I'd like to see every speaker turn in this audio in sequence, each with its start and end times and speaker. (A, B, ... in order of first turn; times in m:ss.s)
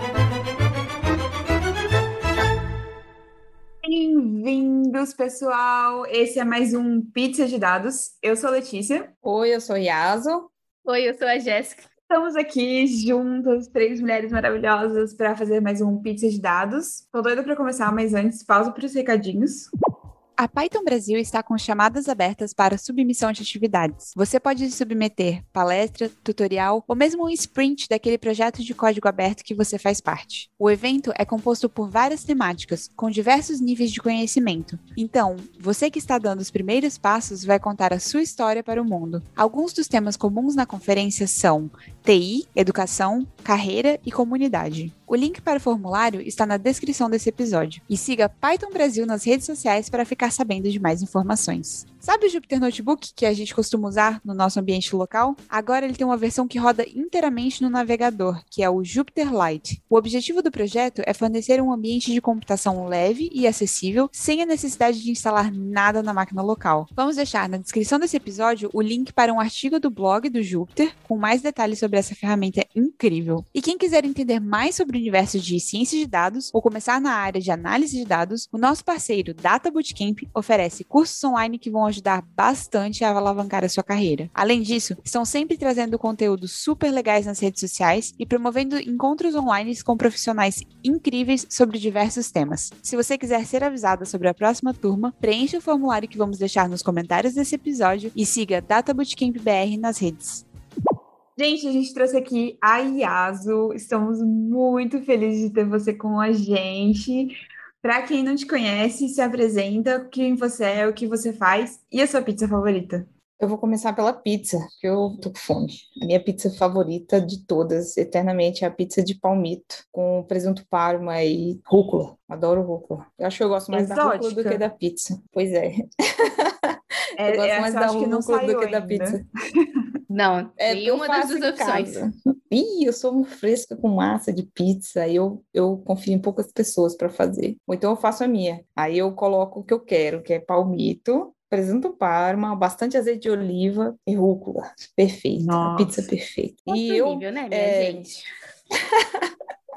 0:03.8-0:09.1 A
0:09.2-0:10.5 B
0:10.8-0:11.9 C
0:12.1-0:19.7 A
0:20.4-1:40.4 D
1:41.4-1:53.0 A
1:53.4-2:09.2 B
2:03.7-2:04.6 A
2:07.2-2:09.2 A
2:10.1-2:12.0 C
2:10.6-2:28.2 B
2:25.4-2:26.0 A
2:26.7-2:28.1 C
2:28.7-2:29.3 B